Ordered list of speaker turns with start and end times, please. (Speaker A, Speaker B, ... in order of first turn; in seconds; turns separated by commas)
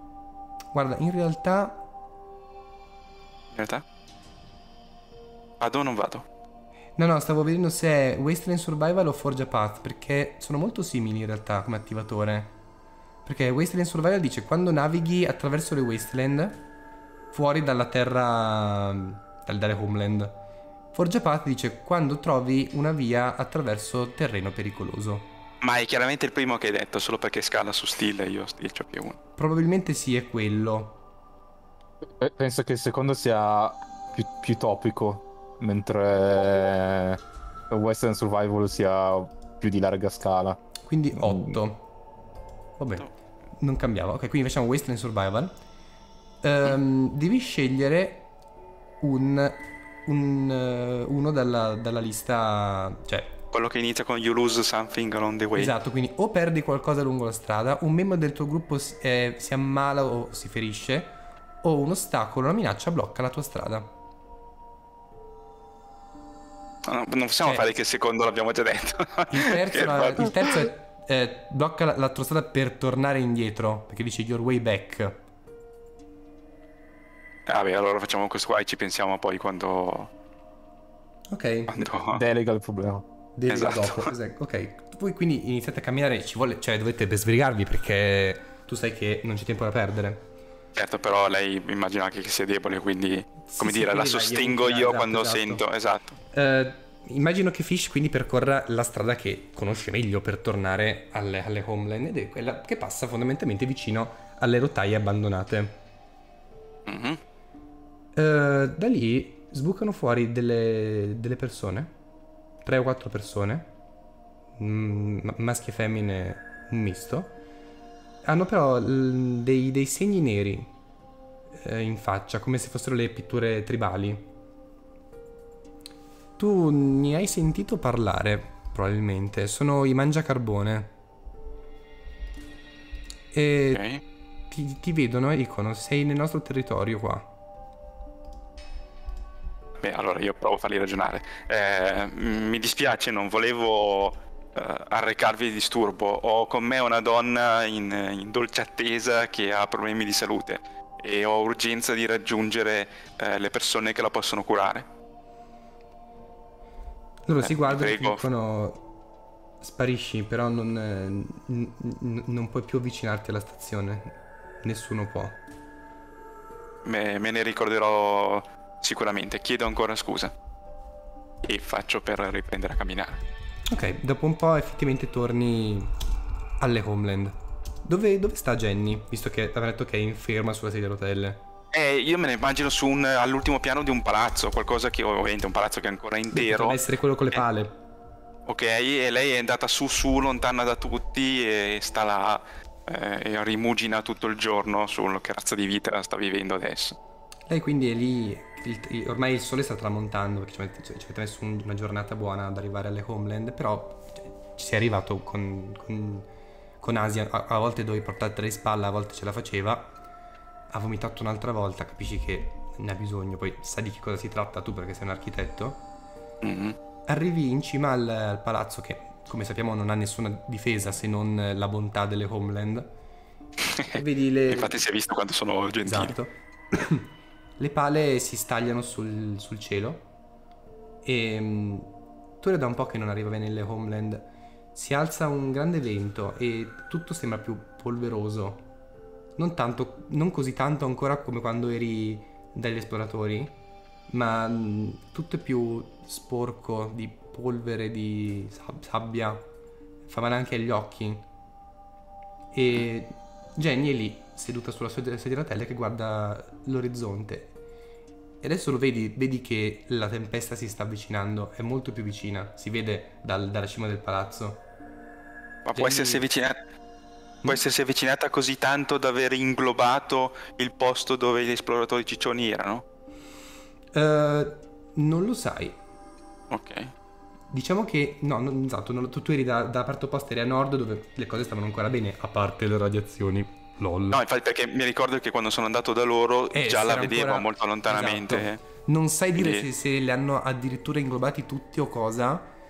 Speaker A: 0.7-1.9, Speaker B: 3.5-3.8, Speaker B: 5.6-6.2, Speaker A: 7.0-12.5, Speaker A: 13.2-16.6, Speaker A: 17.3-20.4, Speaker A: 20.9-25.3, Speaker B: 25.6-29.2, Speaker A: 29.4-31.0, Speaker C: 32.2-40.6, Speaker A: 40.8-41.9, Speaker C: 41.2-41.6, Speaker A: 42.8-45.5, Speaker A: 46.4-48.3, Speaker A: 49.0-53.4, Speaker B: 53.5-55.7, Speaker A: 55.5-63.9, Speaker B: 66.8-70.7, Speaker A: 69.3-75.2, Speaker B: 77.5-80.1, Speaker A: 81.3-81.7, Speaker B: 81.7-82.2, Speaker C: 82.1-83.0, Speaker A: 83.3-90.2, Speaker B: 83.5-84.1, Speaker B: 90.7-96.2, Speaker A: 93.5-95.6, Speaker A: 96.3-105.8, Speaker B: 106.8-107.2, Speaker A: 108.2-111.9, Speaker A: 112.6-113.7, Speaker A: 114.6-117.3, Speaker A: 118.2-120.7, Speaker A: 121.5-124.3, Speaker A: 126.4-130.9, Speaker A: 133.3-133.8, Speaker B: 133.7-134.0, Speaker A: 134.5-137.3, Speaker B: 139.8-154.8, Speaker A: 157.2-158.8, Speaker B: 157.4-158.2, Speaker A: 159.6-165.4, Speaker B: 166.8-170.3, Speaker B: 171.4-173.2, Speaker A: 173.7-175.9, Speaker A: 176.6-181.4, Speaker B: 181.7-186.8, Speaker A: 186.3-187.8, Speaker B: 188.4-197.0, Speaker A: 197.5-206.3, Speaker A: 206.8-210.0, Speaker A: 210.7-215.8, Speaker B: 216.4-216.8, Speaker A: 217.1-222.9, Speaker A: 223.9-224.7, Speaker B: 224.5-226.2, Speaker A: 225.8-230.1, Speaker A: 231.0-231.9, Speaker A: 232.4-238.7, Speaker A: 239.3-243.6, Speaker A: 244.1-249.5, Speaker A: 250.1-251.2, Speaker A: 252.5-257.5, Speaker A: 258.4-264.6, Speaker B: 265.6-266.6, Speaker A: 265.7-266.2, Speaker B: 267.4-272.8, Speaker A: 273.9-275.8, Speaker B: 276.5-276.9, Speaker A: 277.5-284.2, Speaker B: 284.1-288.6, Speaker A: 286.5-292.5, Speaker B: 289.3-289.6